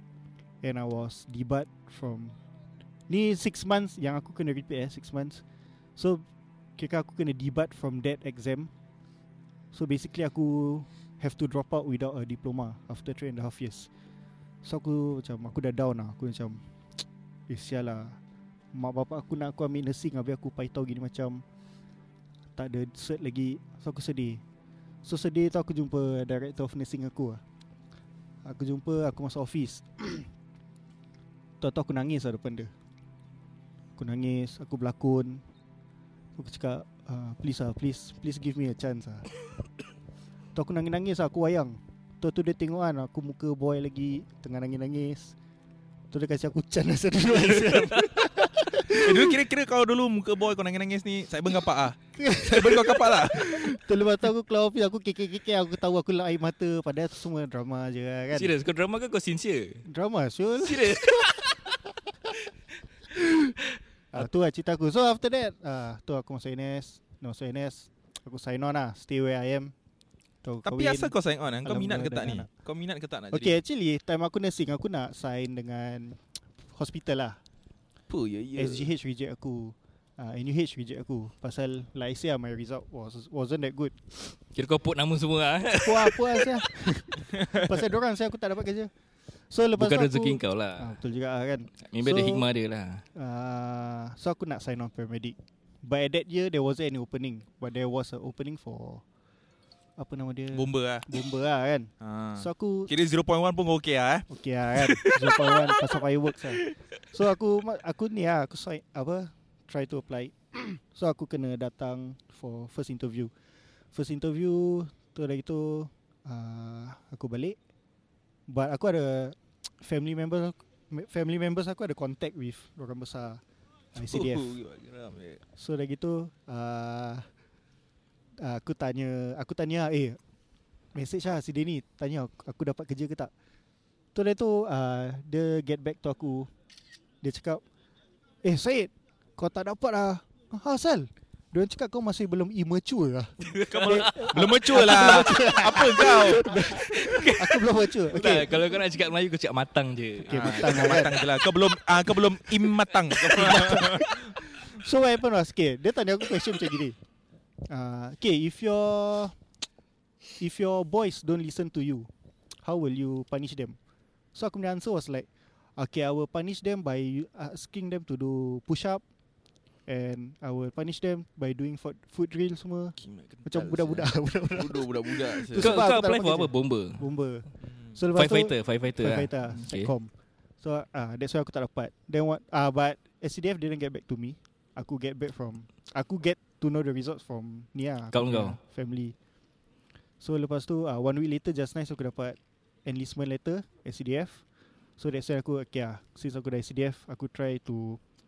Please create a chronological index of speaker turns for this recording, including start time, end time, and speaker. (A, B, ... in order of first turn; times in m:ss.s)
0:00.6-0:02.4 A
0:03.1-0:05.4 A
0:06.0-0:06.2 A
0:06.8-0:08.7 A
0:09.7-0:13.9 A
0:14.6-0:16.6 A
0:17.5-0:18.2 A
0:18.7-0:21.4 A
0:22.6-0:24.4 A
0:25.0-0:27.4 A
0:28.4-0:30.3 A
0:31.6-0:32.7 A
0:34.0-0:35.4 A
0:36.4-0:39.4 A
0:40.5-0:45.3 A
0:46.1-0:49.4 A
0:47.2-0:48.1 B
0:48.8-0:53.8 B
0:52.2-0:58.5 A
0:58.3-0:59.9 C
0:59.9-1:01.2 A
1:00.6-1:01.8 C
1:04.1-1:09.7 A
1:10.4-1:12.5 A
1:10.6-1:13.6 B
1:13.3-1:17.4 A
1:18.1-1:18.9 B
1:18.6-1:23.9 A
1:24.3-1:26.6 C
1:25.8-1:28.9 A
1:29.5-1:32.4 A
1:29.8-1:31.0 C
1:31.8-1:33.0 C
1:33.1-1:39.0 A
1:40.0-1:42.9 A
1:40.5-1:41.1 B
1:42.0-1:45.6 B
1:44.3-1:53.3 A
1:53.9-1:57.6 A
1:58.5-2:03.4 A
2:04.0-2:04.6 A
2:04.0-2:05.4 B
2:05.6-2:07.2 A
2:08.4-2:10.2 A
2:10.9-2:13.3 A
2:14.1-2:16.5 A
2:17.2-2:17.6 A
2:18.4-2:28.7 A
2:23.5-2:24.3 C
2:23.7-2:26.8 B
2:26.7-2:31.3 C
2:30.3-2:31.3 A
2:30.3-2:34.2 B
2:33.2-2:37.0 A
2:33.2-2:33.8 C
2:37.7-2:39.4 A
2:40.4-2:42.1 A
2:42.6-2:43.8 A
2:44.3-2:49.0 A
2:49.9-3:09.1 A
2:53.0-2:55.9 B
2:55.6-2:57.1 C
2:57.6-2:58.0 B
2:58.1-2:59.9 C
3:08.1-3:08.6 C
3:10.2-3:14.4 A
3:15.0-3:18.0 A